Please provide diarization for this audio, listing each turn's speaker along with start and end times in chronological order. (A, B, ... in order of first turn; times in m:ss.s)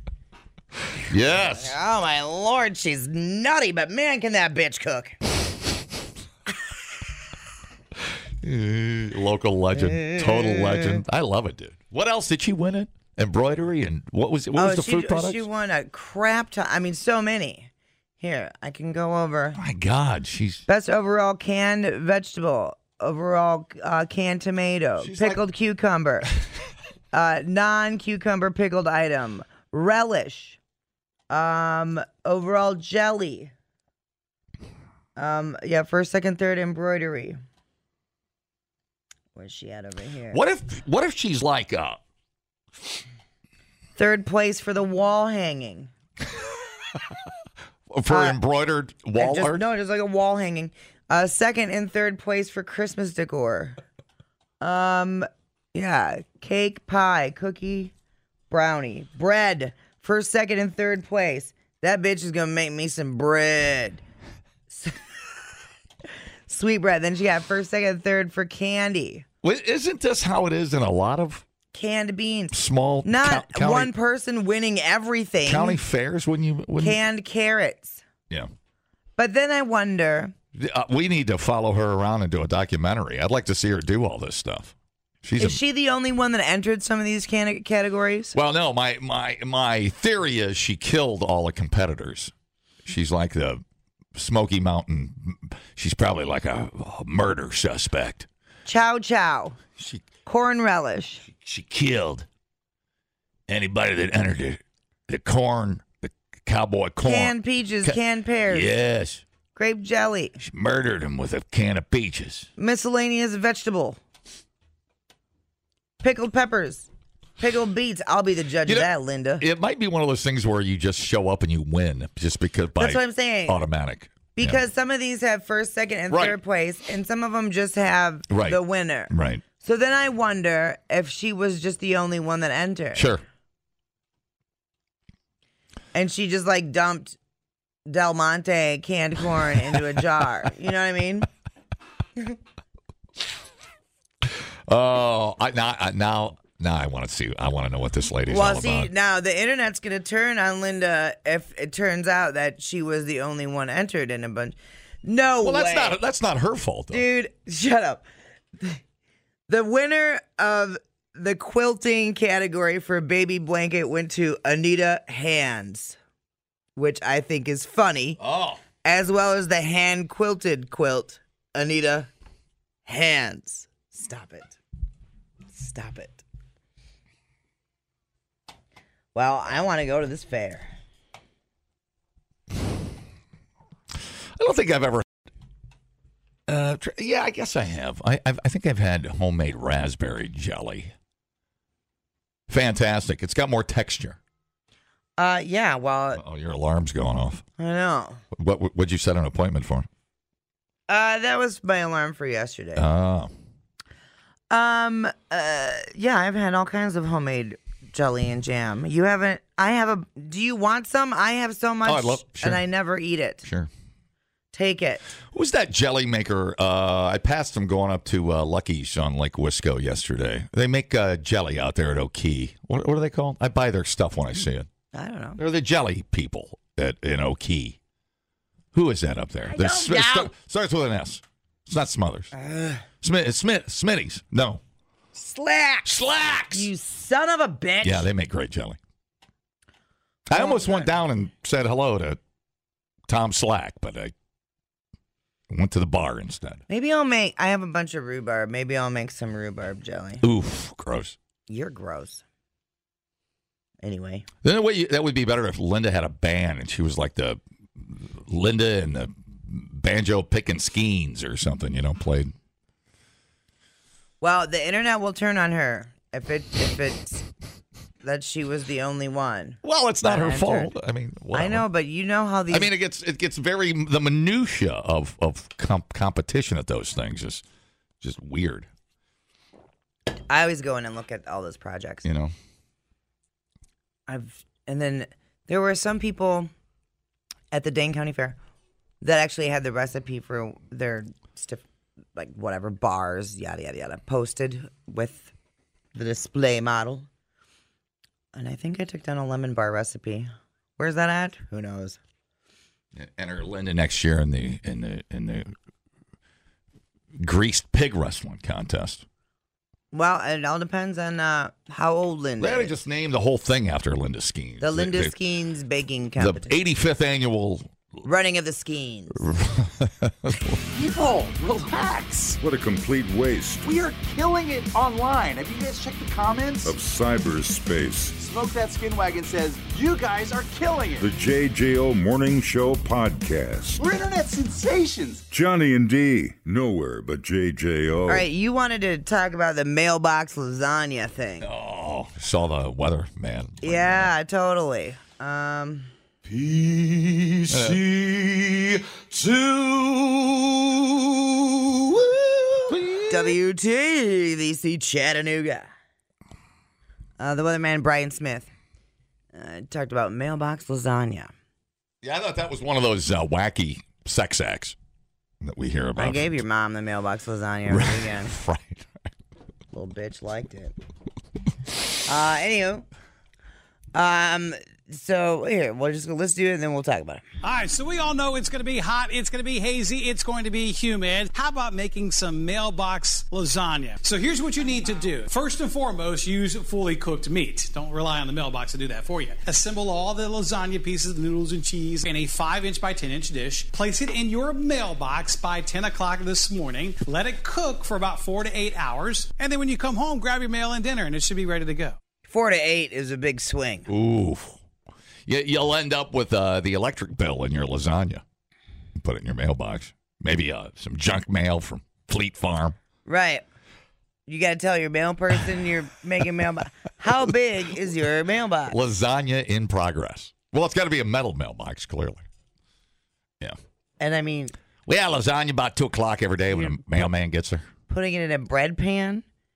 0:01.1-0:01.8 A
0:01.3-0:05.2 B
0:08.4-0:15.5 A
0:09.8-0:11.0 B
0:14.6-0:19.6 B
0:19.6-0:20.6 A
0:20.7-0:26.3 B
0:25.0-0:25.4 A
0:27.1-0:30.6 B
0:31.3-0:33.5 B
0:35.2-0:37.4 B
0:39.4-0:40.4 B
0:40.3-0:42.0 A
0:44.0-0:45.9 B
0:47.9-0:49.6 A
0:48.1-0:48.4 B
0:49.2-0:53.8 B
0:54.6-0:57.9 B
0:58.5-1:04.0 B
1:04.7-1:05.0 B
1:06.5-1:09.2 B
1:09.4-1:11.4 A
1:11.7-1:15.8 B
1:12.5-1:13.9 A
1:15.4-1:17.0 A
1:16.8-1:18.0 B
1:19.2-1:20.3 B
1:20.6-1:25.6 A
1:25.4-1:28.4 B
1:28.3-1:32.3 A
1:32.8-1:33.6 A
1:34.2-1:38.3 A
1:38.7-1:39.6 B
1:39.8-1:40.1 A
1:40.2-1:41.2 B
1:41.2-1:42.3 A
1:43.5-1:49.2 A
1:47.0-1:48.7 B
1:49.6-1:50.4 B
1:50.4-1:52.5 A
1:52.6-1:54.0 B
1:56.0-1:56.9 B
1:57.4-1:59.4 B
1:58.7-2:04.6 A
2:02.8-2:03.6 B
2:04.4-2:13.1 B
2:06.1-2:06.4 A
2:08.3-2:09.4 A
2:13.0-2:13.2 A
2:15.9-2:17.2 B
2:17.9-2:21.3 B
2:24.7-2:28.9 A
2:28.3-2:36.0 B
2:35.4-2:37.1 A
2:36.9-2:38.0 B
2:39.5-2:46.0 B
2:46.8-2:48.2 B
2:48.2-2:48.6 A
2:48.8-2:52.1 B
2:52.9-2:54.6 B
2:55.5-2:56.2 B
2:59.1-3:00.7 B
3:04.4-3:05.0 A
3:06.5-3:10.9 A
3:12.5-3:14.2 A
3:15.2-3:16.2 B
3:16.1-3:17.4 A
3:17.6-3:18.2 B
3:18.3-3:19.9 A
3:20.9-3:22.9 B
3:22.8-3:23.3 A
3:24.5-3:33.4 B
3:31.8-3:32.6 A
3:33.4-3:33.7 A
3:34.5-3:35.0 B
3:35.3-3:44.7 A
3:44.9-3:45.4 B
3:45.4-3:47.8 A
3:48.7-3:52.3 A
3:49.5-3:50.3 B
3:52.3-3:52.8 B
3:53.0-3:54.6 A
3:55.2-3:56.0 B
3:55.8-3:56.7 A
3:56.5-3:58.1 B
3:57.8-3:58.8 A
4:00.3-4:02.2 A
4:00.3-4:01.0 B
4:03.1-4:04.1 A
4:05.5-4:06.6 A
4:06.7-4:10.2 B
4:10.2-4:11.2 A
4:11.5-4:12.2 B
4:13.8-4:14.3 B
4:14.4-4:22.3 A
4:24.2-4:27.2 B
4:28.0-4:30.7 B
4:29.6-4:31.7 A
4:31.3-4:32.7 B
4:32.5-4:37.4 A
4:38.0-4:38.7 A
4:40.3-4:42.1 B
4:42.0-4:42.3 A
4:44.1-4:46.5 B
4:47.5-4:48.4 B
4:49.0-4:51.6 B
4:52.2-4:55.3 B
4:56.0-4:57.1 B
4:58.3-5:02.0 B
5:03.0-5:05.5 A
5:07.2-5:09.0 A
5:09.9-5:12.7 B
5:12.4-5:15.2 A
5:14.6-5:16.6 B
5:16.2-5:17.8 A
5:18.0-5:19.2 B
5:19.2-5:20.6 A
5:20.7-5:22.4 C
5:22.4-5:23.7 D
5:23.6-5:26.8 C
5:26.6-5:28.2 D
5:28.2-5:31.1 C
5:31.0-5:33.8 D
5:33.8-5:35.2 C
5:35.3-5:38.3 D
5:38.1-5:41.5 B
5:41.4-5:44.1 A
5:43.6-5:45.9 B
5:46.3-5:50.3 C
5:47.5-5:47.8 A
5:51.8-5:52.6 C
5:52.7-5:53.4 A
5:53.1-5:55.7 B
5:57.2-5:58.5 B
5:59.3-6:01.3 B
6:02.0-6:04.8 A
6:05.4-6:06.4 A
6:06.0-6:08.3 B
6:07.7-6:08.9 A
6:09.7-6:10.7 B
6:12.0-6:12.9 B
6:13.9-6:17.2 B
6:17.4-6:42.0 E
6:42.3-6:43.9 B
6:43.9-6:44.6 A
6:45.3-6:48.2 A
6:49.0-6:52.8 A
6:53.1-6:53.4 B
6:54.3-6:58.8 B
6:58.7-7:02.2 A
7:04.0-7:04.5 B
7:04.9-7:07.7 A
7:07.9-7:09.2 B